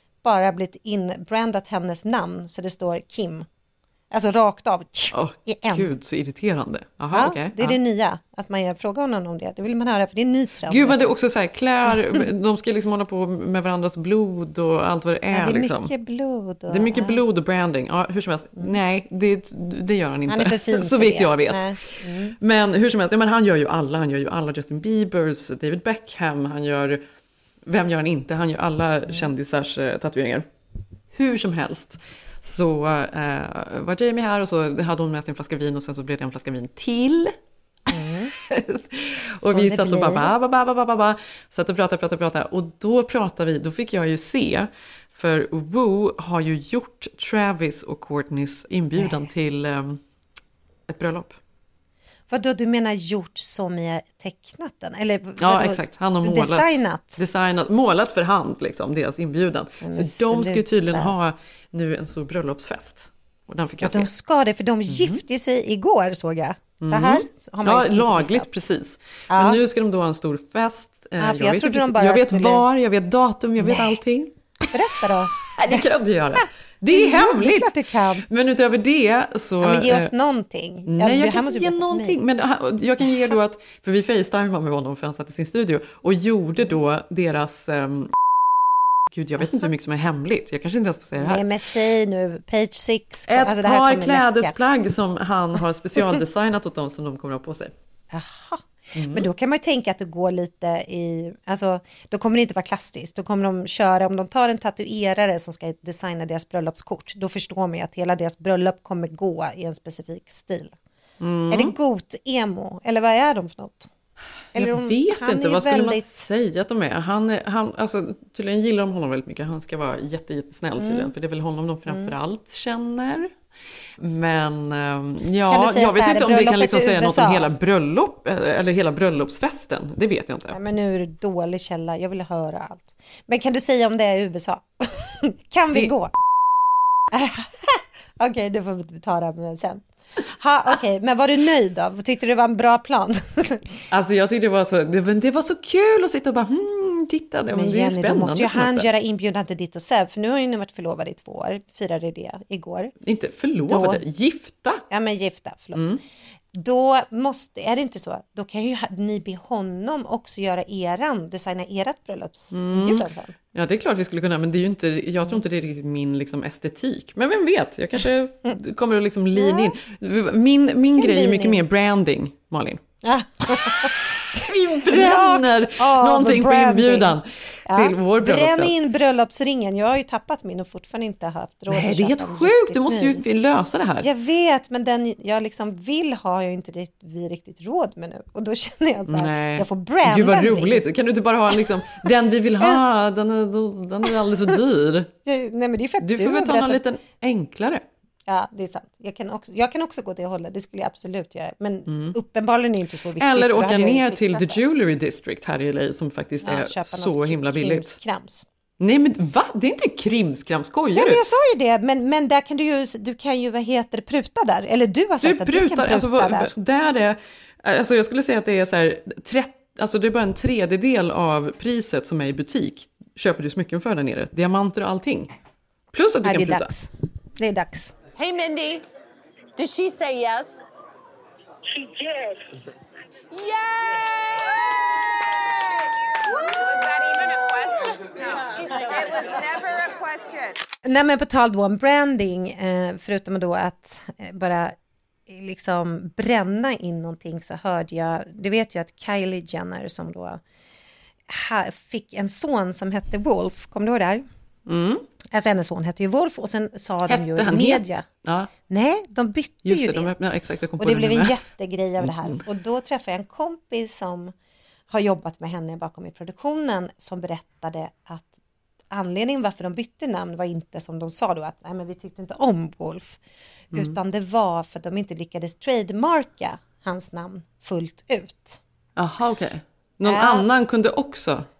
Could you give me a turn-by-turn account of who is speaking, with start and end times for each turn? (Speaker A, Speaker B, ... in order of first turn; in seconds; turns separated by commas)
Speaker A: 0.2-3.5, Speaker A: 4.1-5.9, Speaker B: 5.1-7.8, Speaker A: 7.1-11.0, Speaker B: 10.7-15.9, Speaker A: 15.3-17.2, Speaker B: 16.7-27.0, Speaker A: 20.3-22.4, Speaker B: 27.6-30.4, Speaker B: 31.1-37.3, Speaker A: 37.9-38.3, Speaker B: 38.4-50.0, Speaker A: 39.4-40.3, Speaker A: 49.0-49.3, Speaker B: 50.9-51.4, Speaker A: 52.3-57.2, Speaker B: 55.4-64.1, Speaker A: 59.8-61.1, Speaker A: 63.8-68.5, Speaker B: 64.9-65.2, Speaker B: 66.8-74.3, Speaker A: 69.3-69.6, Speaker A: 71.2-72.6, Speaker A: 73.6-74.0, Speaker A: 74.7-75.8, Speaker B: 75.5-80.1, Speaker A: 76.9-78.2, Speaker A: 79.6-82.2, Speaker B: 80.9-88.1, Speaker B: 89.1-91.4, Speaker A: 91.2-94.5, Speaker B: 93.3-97.7, Speaker A: 98.1-110.7, Speaker B: 98.9-99.3, Speaker B: 111.2-111.7, Speaker A: 111.5-113.9, Speaker A: 114.5-116.0, Speaker B: 114.5-123.3, Speaker A: 120.8-121.1, Speaker A: 121.9-122.1, Speaker B: 124.0-130.6, Speaker A: 125.5-127.5, Speaker A: 130.5-136.1, Speaker A: 137.1-143.7, Speaker B: 143.9-148.9, Speaker A: 147.5-152.9, Speaker B: 153.0-154.8, Speaker A: 153.6-154.0, Speaker A: 154.9-155.9, Speaker B: 155.7-156.0, Speaker A: 156.5-163.3, Speaker B: 162.5-172.8, Speaker A: 169.3-169.7, Speaker A: 170.9-171.6, Speaker A: 173.0-177.1, Speaker B: 174.3-178.7, Speaker A: 177.7-183.2, Speaker B: 181.7-184.1, Speaker A: 184.0-190.8, Speaker B: 189.1-195.1, Speaker A: 194.1-194.5, Speaker A: 195.2-196.8, Speaker B: 196.0-197.8, Speaker A: 198.3-204.6, Speaker B: 201.9-202.2, Speaker B: 203.2-207.9, Speaker A: 206.4-208.4, Speaker B: 208.8-211.2, Speaker A: 210.9-216.5, Speaker B: 215.2-225.3, Speaker B: 225.9-226.7, Speaker A: 226.2-227.9, Speaker C: 228.2-228.8, Speaker C: 229.6-230.6, Speaker C: 231.8-232.1, Speaker C: 233.3-234.4, Speaker C: 236.4-240.6, Speaker A: 240.8-244.8, Speaker A: 245.3-250.4, Speaker A: 251.3-254.2, Speaker B: 254.7-255.0, Speaker A: 255.3-258.0, Speaker B: 257.1-258.5, Speaker A: 258.7-260.1, Speaker B: 259.6-261.4, Speaker A: 260.8-264.3, Speaker B: 262.0-262.4, Speaker A: 264.9-268.3, Speaker A: 268.9-273.2, Speaker A: 273.7-278.6, Speaker B: 278.9-281.5, Speaker A: 280.1-280.5